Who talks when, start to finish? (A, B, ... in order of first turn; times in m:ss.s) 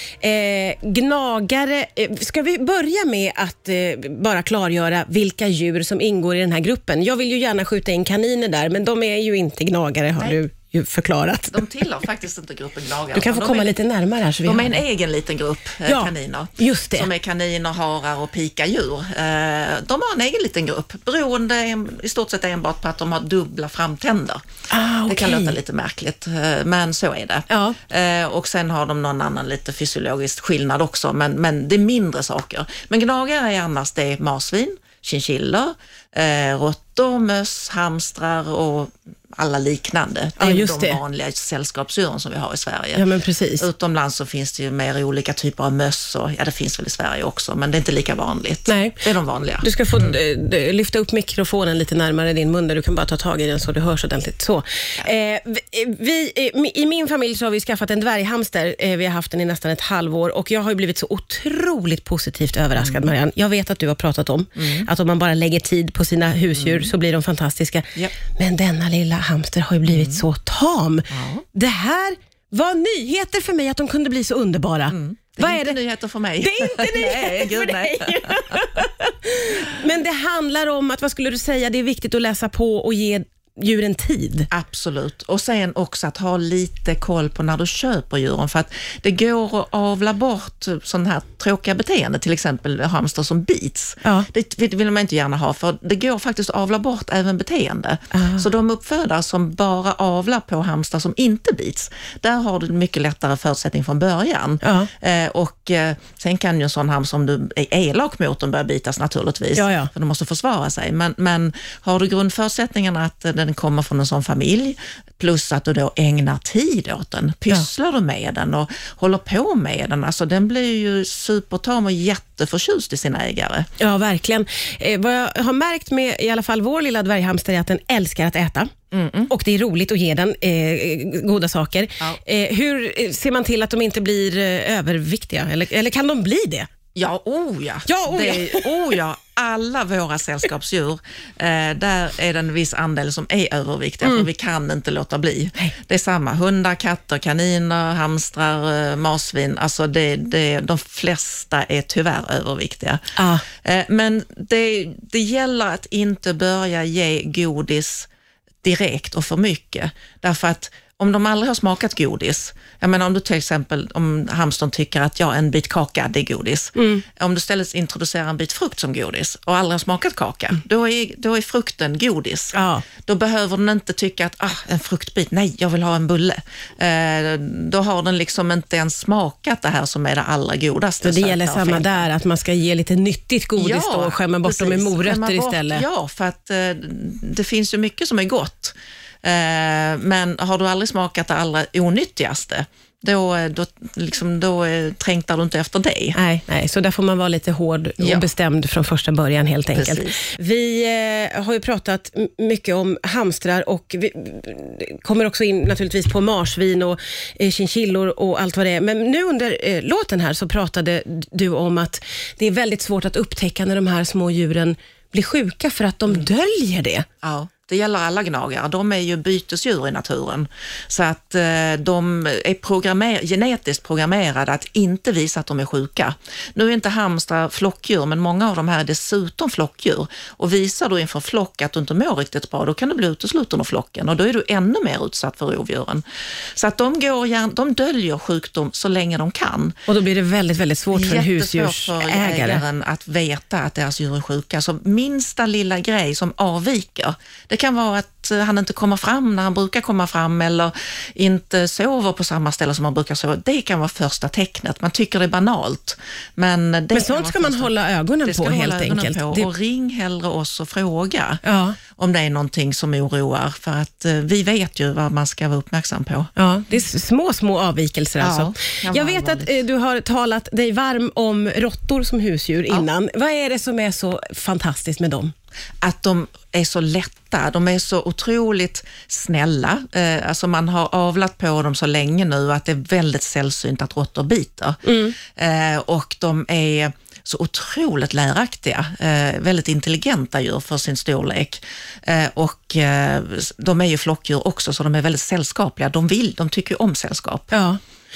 0:00.2-0:11.6 A
0:11.5-0:13.8 B
0:13.1-0:14.8 A
0:14.4-0:24.4 B
0:15.9-0:17.1 A
0:24.7-0:25.6 A
0:25.1-0:43.0 B
0:27.5-0:27.8 A
0:40.4-0:41.0 A
0:43.0-0:43.7 A
0:43.6-0:50.2 B
0:48.7-0:49.0 A
0:49.6-1:15.8 A
1:02.8-1:03.1 B
1:04.6-1:04.9 B
1:06.5-1:06.9 B
1:09.9-1:10.2 B
1:11.1-1:11.4 B
1:14.9-1:18.6 B
1:16.4-1:24.5 A
1:24.5-2:03.7 B
1:38.1-1:38.5 A
1:44.6-1:44.9 A
1:49.6-1:49.9 A
2:03.8-2:08.7 A
2:08.9-2:09.3 B
2:09.3-2:16.7 A
2:17.0-2:38.1 B
2:17.9-2:18.7 A
2:24.0-2:24.3 A
2:33.2-2:33.4 A
2:38.6-3:02.0 B
2:46.8-2:47.0 A
2:52.5-2:52.9 A
3:01.0-3:05.8 A
3:03.6-3:16.2 B
3:16.2-3:37.1 A
3:18.0-3:18.3 B
3:19.7-3:20.2 B
3:37.2-3:56.0 B
3:56.6-3:59.7 B
3:59.9-4:02.6 A
4:00.9-4:17.7 B
4:16.9-4:19.5 A
4:18.2-4:21.4 B
4:21.4-4:21.8 A
4:22.0-4:26.3 B
4:26.4-4:35.3 A
4:28.2-4:29.6 B
4:35.8-4:44.8 B
4:44.8-4:45.2 A
4:45.4-4:57.5 B
4:57.5-4:57.8 A